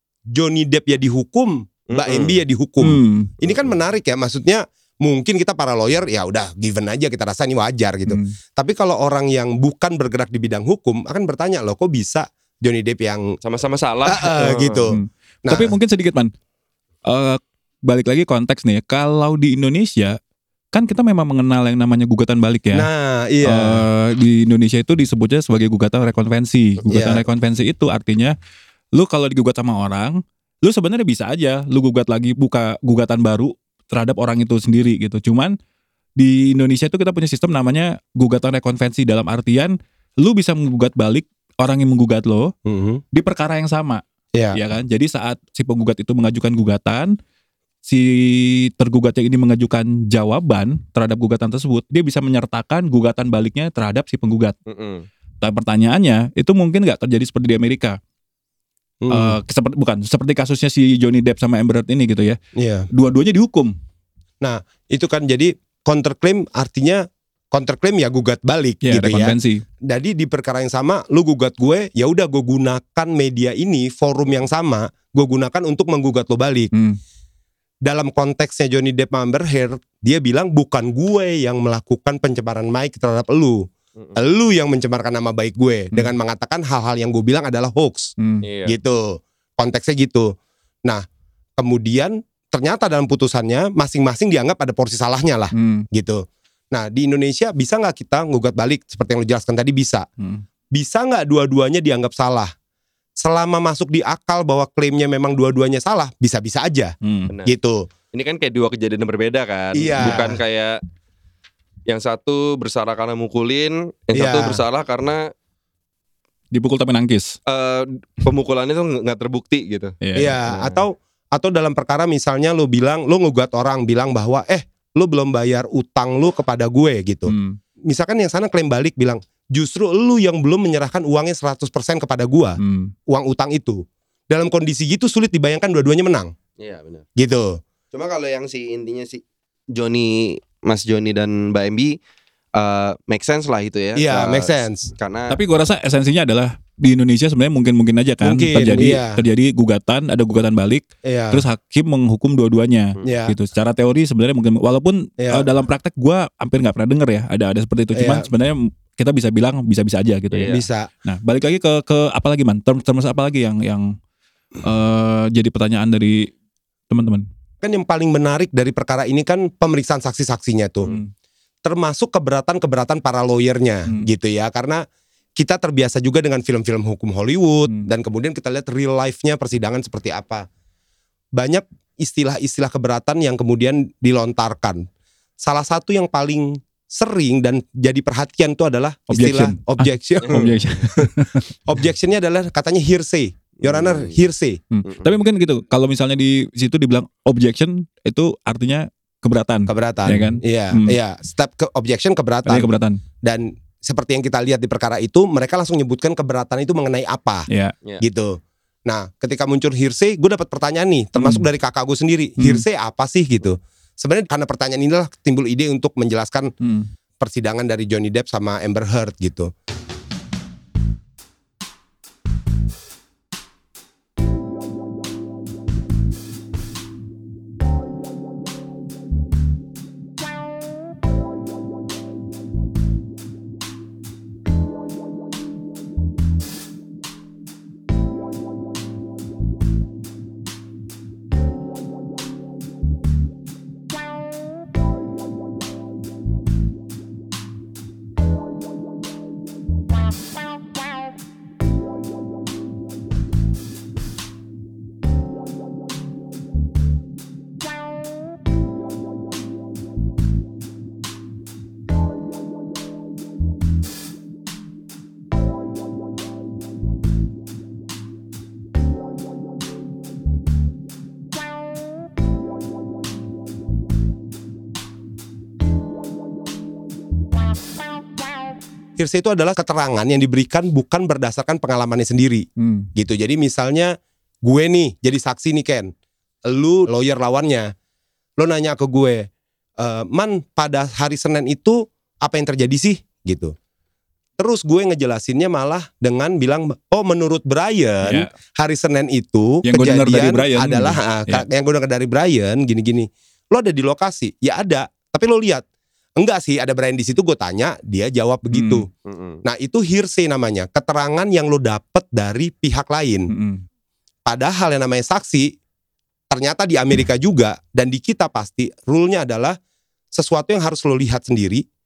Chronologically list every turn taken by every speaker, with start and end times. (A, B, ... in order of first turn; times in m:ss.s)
0:00.3-0:13.4 A
0:01.9-0:02.4 B
0:02.8-0:03.3 C
0:08.1-0:08.4 C
0:13.4-0:14.8 B
0:14.0-0:15.7 A
0:14.9-0:16.3 C
0:17.1-0:20.2 C
0:20.7-0:22.9 C
0:22.7-0:23.8 A
0:23.4-0:28.3 C
0:26.9-0:27.2 A
0:28.9-0:35.5 C
0:36.2-0:42.5 C
0:42.6-0:43.0 A
0:43.1-0:44.0 C
0:44.5-0:47.2 C
0:47.8-0:54.6 C
0:54.7-0:55.1 B
0:55.4-0:58.0 C
0:59.0-0:59.4 A
0:59.1-1:02.4 C
1:02.5-1:02.9 A
1:02.9-1:03.7 C
1:04.4-1:16.7 A
1:08.8-1:09.6 C
1:17.8-1:28.1 A
1:28.4-1:28.8 B
1:28.6-1:30.3 A
1:31.6-1:40.0 A
1:35.5-1:35.9 C
1:40.7-1:42.5 A
1:43.2-1:46.9 A
1:47.0-1:47.3 C
1:47.4-1:47.9 A
1:48.1-1:50.8 B
1:49.7-1:50.4 A
1:51.9-1:55.3 B
1:54.1-1:54.6 A
1:56.5-1:57.4 C
1:57.5-1:59.9 B
2:00.0-2:00.4 C
2:00.1-2:07.3 A
2:00.5-2:00.8 B
2:07.3-2:07.6 C
2:07.9-2:16.3 A
2:12.6-2:12.9 C
2:16.6-2:17.0 B
2:17.2-2:17.6 A
2:17.9-2:19.2 B
2:19.7-2:22.0 B
2:22.6-2:25.4 B
2:24.0-2:24.9 A
2:25.3-2:40.5 C
2:28.2-2:29.2 A
2:31.0-2:31.4 A
2:33.0-2:33.3 A
2:35.2-2:35.4 A
2:37.9-2:38.2 A
2:40.3-2:40.6 B
2:40.5-2:40.9 A
2:41.0-2:44.0 C
2:44.6-2:46.3 C
2:46.9-2:47.2 C
2:47.6-2:50.9 A
2:51.6-2:54.8 A
2:55.4-3:00.4 A
3:01.4-3:04.8 A
3:05.4-3:11.1 A
3:09.1-3:11.5 C
3:11.7-3:14.6 A
3:13.6-3:14.2 B
3:14.7-3:21.0 C
3:19.7-3:27.4 A
3:22.4-3:23.0 C
3:28.0-3:36.5 A
3:31.2-3:31.4 C
3:32.4-3:32.6 C
3:36.6-3:36.9 C
3:37.2-3:39.5 A
4:39.0-4:45.9 A
4:42.6-4:42.9 C
4:46.5-4:47.7 A
4:48.4-4:53.5 A
4:54.4-5:05.6 A
4:58.0-4:58.3 C
4:59.6-5:01.4 C
5:06.2-5:08.9 A
5:08.5-5:08.8 C
5:09.0-5:09.4 B
5:09.4-5:13.3 A
5:13.3-5:13.6 C
5:14.2-5:15.5 A
5:16.3-5:19.6 A
5:20.1-5:21.6 A